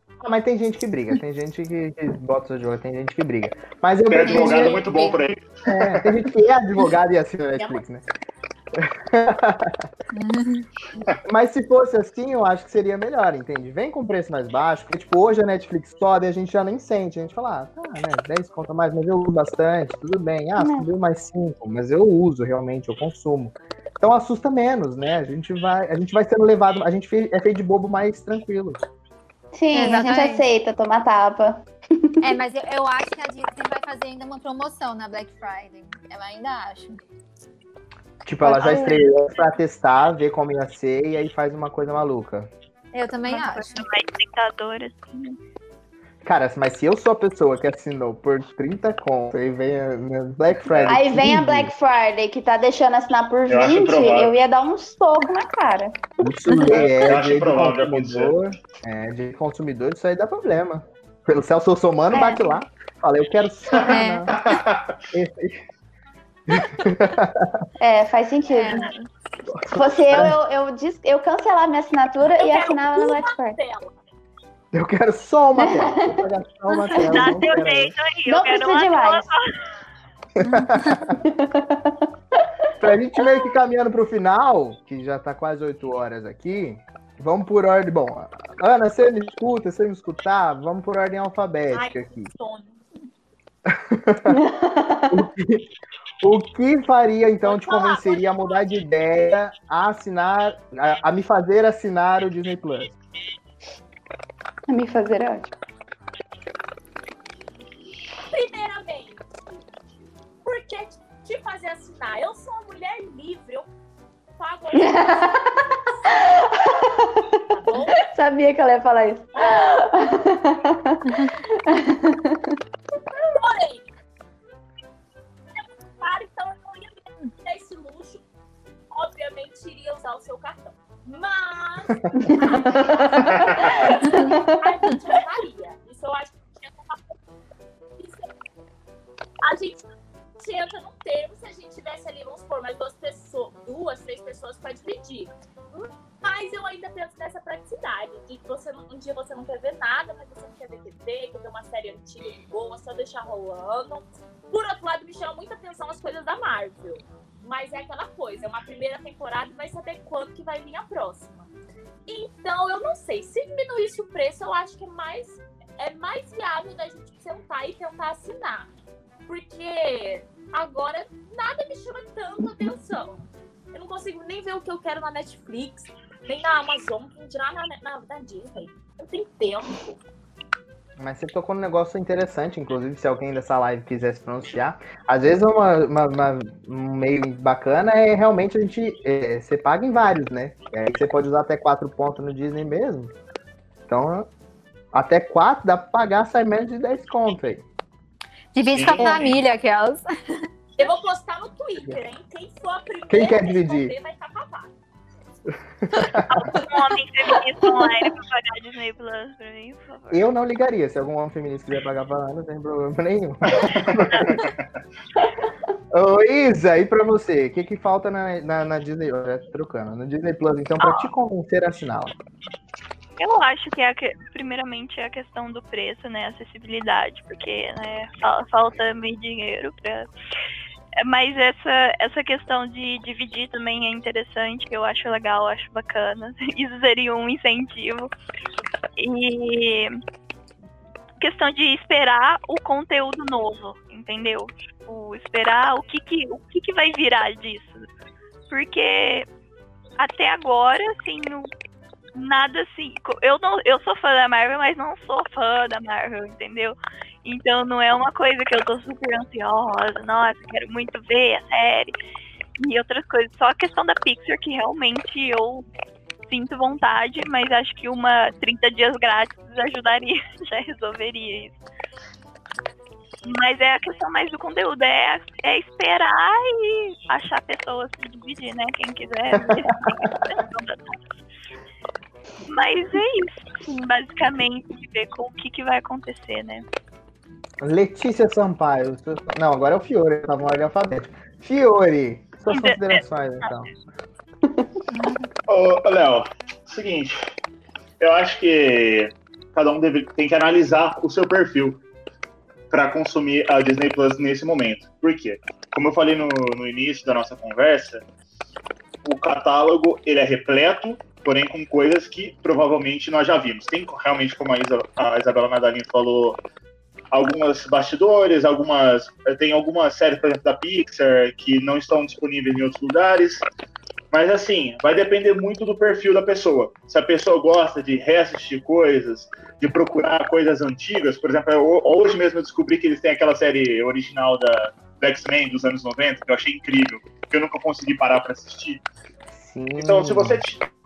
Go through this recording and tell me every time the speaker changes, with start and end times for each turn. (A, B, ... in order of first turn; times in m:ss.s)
0:00.2-0:04.8 A
0:04.1-0:06.1 B
0:04.3-0:05.2 C
0:05.7-0:08.0 A
0:07.6-0:07.8 D
0:08.8-0:09.8 A
0:10.1-0:10.7 C
0:11.2-0:28.8 A
0:20.6-0:20.9 E
0:29.5-0:31.6 E
0:29.7-0:30.4 C
0:32.2-0:37.0 C
0:38.2-0:42.5 A
0:38.4-0:39.1 E
0:42.9-0:43.9 C
0:43.3-0:45.4 F
0:46.2-0:51.7 A
0:50.7-0:51.0 B
0:50.9-0:56.1 E
0:53.5-0:54.4 B
0:56.2-1:04.4 A
0:56.7-0:58.4 B
1:02.1-1:02.6 E
1:03.7-1:05.0 B
1:03.9-1:04.3 C
1:05.1-1:05.6 A
1:06.5-1:07.6 A
1:07.8-1:08.9 E
1:08.5-1:09.1 C
1:09.5-1:10.4 A
1:09.7-1:13.6 E
1:12.2-1:13.9 D
1:14.7-1:17.9 A
1:15.6-1:16.0 E
1:16.8-1:17.4 E
1:17.0-1:19.6 F
1:18.3-1:19.3 E
1:20.4-1:21.2 A
1:21.1-1:22.1 E
1:22.8-1:32.3 A
1:31.7-1:32.8 D
1:33.7-1:34.4 A
1:34.3-1:35.2 E
1:35.1-1:35.7 A
1:36.2-1:42.9 A
1:37.4-1:38.8 D
1:44.7-1:45.5 E
1:48.3-1:49.6 D
1:50.4-1:53.7 D
1:54.4-1:55.9 D
1:54.8-1:57.2 E
1:57.4-1:58.0 D
1:58.0-2:02.6 E
2:03.2-2:03.9 D
2:05.6-2:08.2 D
2:08.9-2:12.8 D
2:12.2-2:15.1 E
2:13.2-2:13.6 B
2:13.6-2:17.1 D
2:18.0-2:18.3 D
2:19.4-2:19.8 D
2:20.4-2:41.5 D
2:42.1-2:48.7 D
2:49.3-3:00.0 D
3:01.0-3:13.1 A
3:13.9-3:14.3 A
3:14.9-3:17.6 A
3:18.5-3:20.5 C
3:18.6-3:19.4 B
3:20.8-3:24.7 D
3:23.1-3:23.9 A
3:25.9-3:26.5 A
3:26.3-3:30.3 F
3:30.1-3:34.5 A
3:33.5-3:34.7 B
3:35.9-3:42.2 A
3:40.8-3:41.1 F
3:43.2-3:50.1 F
3:51.0-3:58.1 F
3:59.0-4:00.0 F
4:01.2-4:07.9 F
4:08.5-4:09.3 F
4:10.0-4:11.5 F
4:12.1-4:22.0 F
4:22.6-4:25.6 F
4:26.3-4:31.5 F
4:33.2-4:41.0 F
4:39.3-4:40.1 A
4:42.4-4:46.6 F
4:47.6-4:53.7 A
4:52.5-4:53.5 F
4:54.9-4:55.2 C
4:55.5-4:57.2 B
4:58.0-5:01.8 B
5:02.7-5:08.0 B
5:09.0-5:16.4 B
5:17.1-5:23.5 B
5:24.1-5:38.8 B
5:39.3-5:40.4 A
5:39.8-5:40.6 B